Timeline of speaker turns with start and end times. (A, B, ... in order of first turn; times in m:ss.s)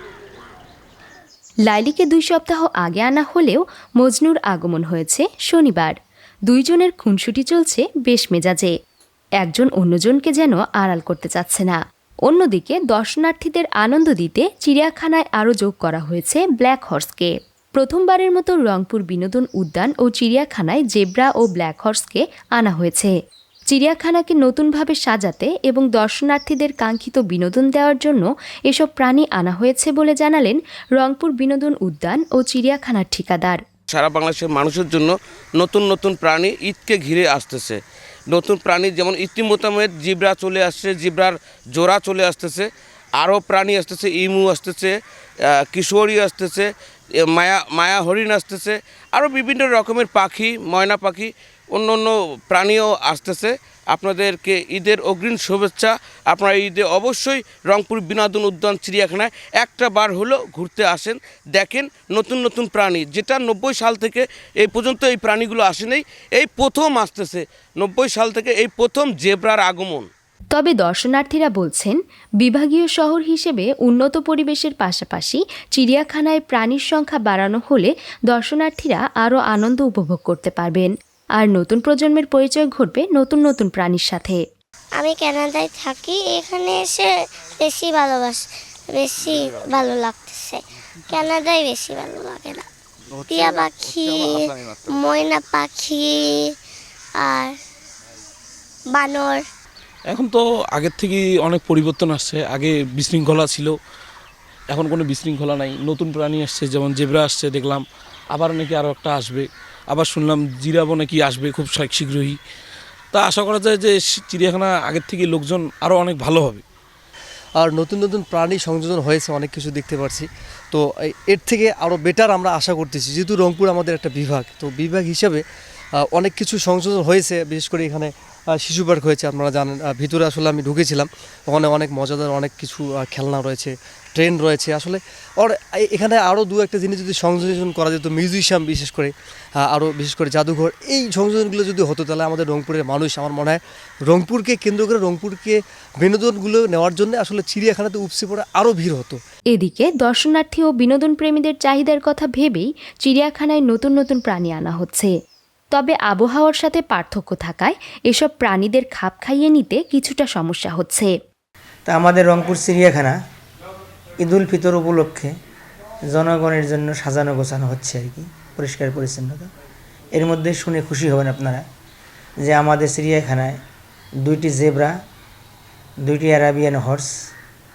0:01.7-0:06.0 A
0:06.5-0:08.7 A
0:09.4-0:23.1 A
0:23.7-0:33.6 A
0:33.9-0:37.8 B
0:38.3-0:44.9 B
0:45.7-0:46.7 B
0:47.2-1:10.1 B
1:10.5-1:24.4 A
1:25.0-1:28.4 C
1:28.9-1:32.6 C
1:33.3-1:36.5 C
1:37.2-1:37.5 C
1:38.9-1:39.4 C
1:40.1-1:43.7 D
1:44.7-1:52.4 D
1:53.1-1:56.6 D
1:57.6-2:05.4 E
2:06.1-2:29.2 E
2:29.5-2:35.1 A
2:35.7-2:41.1 A
2:41.9-2:43.2 F
2:44.2-2:45.3 F
2:46.1-2:49.5 F
2:50.2-2:51.6 F
2:52.4-2:53.6 F
2:54.2-2:54.9 F
2:56.0-2:57.1 F